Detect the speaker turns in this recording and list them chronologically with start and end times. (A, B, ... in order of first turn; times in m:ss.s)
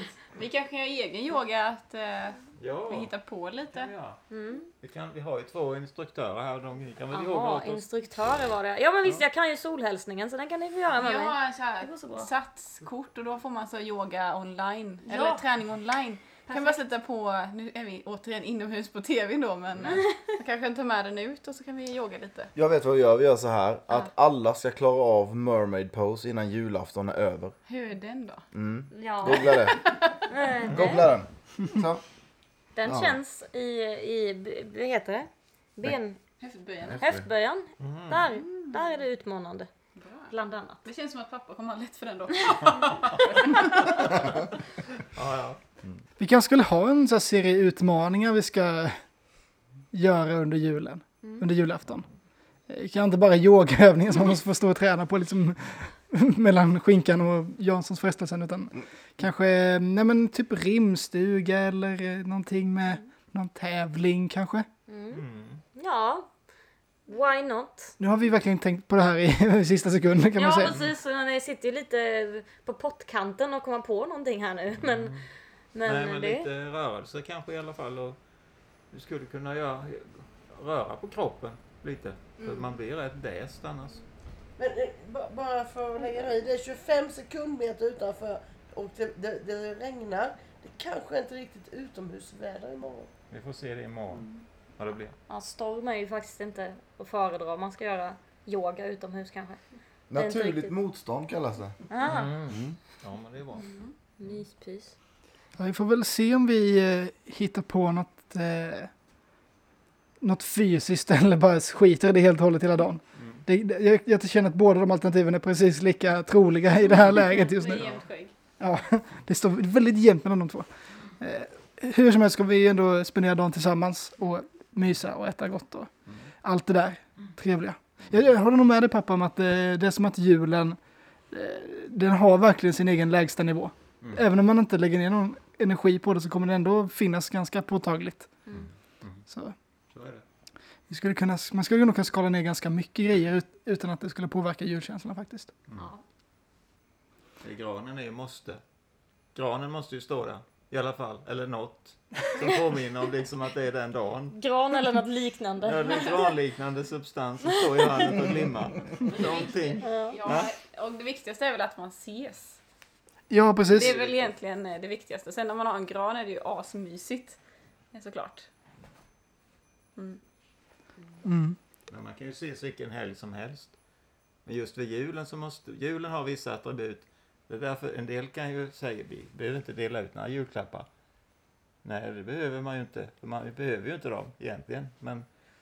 0:00.3-0:03.9 A
0:02.6-0:03.1 B
0:03.7-0:04.2 B
0:04.3-0:04.7 C
0:04.8-0:07.8 B
0:07.1-0:12.3 C
0:10.9-0:22.5 A
0:15.0-0:15.4 C
0:16.5-0:16.8 C
0:19.9-0:20.2 C
0:22.5-0:27.5 D
0:27.6-0:28.5 A
0:28.5-0:29.9 D
0:28.9-0:31.1 C
0:29.4-0:30.1 A
0:30.7-0:32.0 D
0:32.8-0:36.2 C
0:32.8-0:33.2 D
0:36.4-0:37.0 A
0:36.9-0:37.2 D
0:37.0-0:39.7 C
0:37.8-0:38.3 B
0:40.0-0:40.3 A
0:40.3-0:40.8 C
0:40.8-0:44.2 A
0:45.1-0:45.6 B
0:46.2-0:49.0 E
0:49.9-0:52.0 E
0:52.7-1:04.6 E
1:04.9-1:05.2 C
1:05.1-1:05.6 B
1:05.7-1:06.3 C
1:07.1-1:07.9 C
1:08.0-1:10.7 E
1:10.4-1:15.2 C
1:14.8-1:15.2 B
1:15.7-1:16.5 C
1:15.8-1:18.2 B
1:18.9-1:24.0 B
1:22.4-1:22.7 A
1:24.6-1:33.1 F
1:33.3-1:35.2 B
1:35.3-1:39.6 C
1:40.1-1:41.8 D
1:40.1-1:40.7 C
1:41.9-1:42.3 C
1:42.0-1:43.7 B
1:42.5-1:42.8 D
1:44.2-1:44.9 C
1:45.6-1:48.9 E
1:50.2-1:57.9 E
1:53.2-1:53.4 B
1:57.2-1:58.3 A
1:58.6-2:00.7 E
2:01.2-2:05.9 E
2:06.4-2:10.8 E
2:11.3-2:18.3 E
2:18.6-2:19.2 B
2:19.3-2:19.5 E
2:19.9-2:20.2 B
2:20.9-2:25.5 E
2:25.7-2:26.0 C
2:27.4-2:28.6 B
2:29.3-2:34.4 B
2:34.3-2:36.3 C
2:35.6-2:40.5 B
2:39.1-2:42.6 A
2:39.8-2:40.2 C
2:43.3-2:43.9 E
2:43.7-2:44.3 B
2:43.7-2:47.4 A
2:47.9-2:48.5 A
2:51.2-2:51.6 E
2:51.9-2:53.7 B
2:54.4-3:00.8 B
3:01.8-3:05.2 B